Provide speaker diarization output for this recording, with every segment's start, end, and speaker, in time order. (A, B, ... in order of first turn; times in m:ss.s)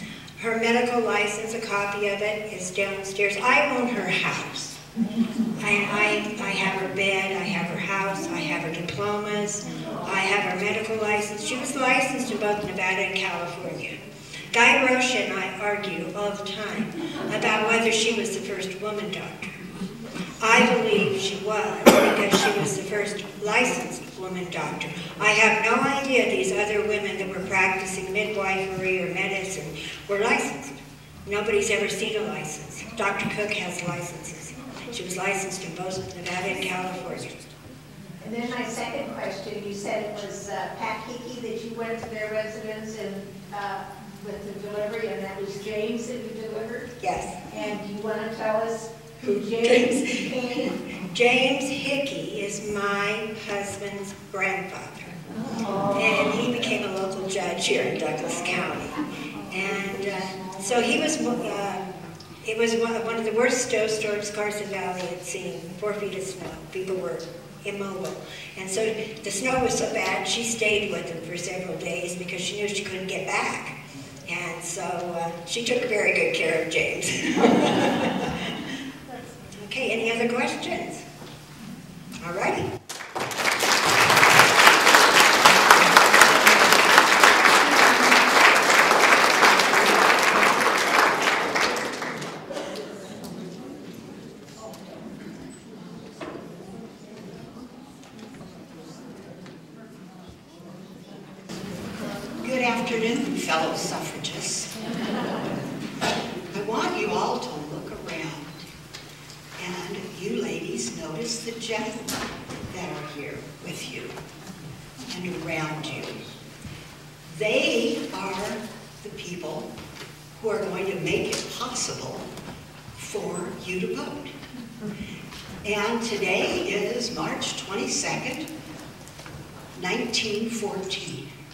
0:00.4-0:04.8 A
0:05.6-0:14.0 A
0:14.5-0:19.6 A
0:20.4-0:37.4 A
0:38.2-0:46.9 B
0:47.0-0:47.4 A
0:47.4-0:50.6 B
0:49.6-0:55.2 A
0:55.9-0:59.0 A
0:59.5-1:01.8 A
1:02.4-1:18.3 A
1:19.5-1:21.0 A
1:22.2-1:22.7 A
1:42.4-1:44.7 C
1:46.5-1:48.5 C
1:49.6-1:54.2 C
1:55.1-1:56.2 C
1:57.3-1:59.7 C
2:00.4-2:02.3 C
2:03.0-2:04.3 C
2:05.6-2:08.5 C
2:09.8-2:11.3 C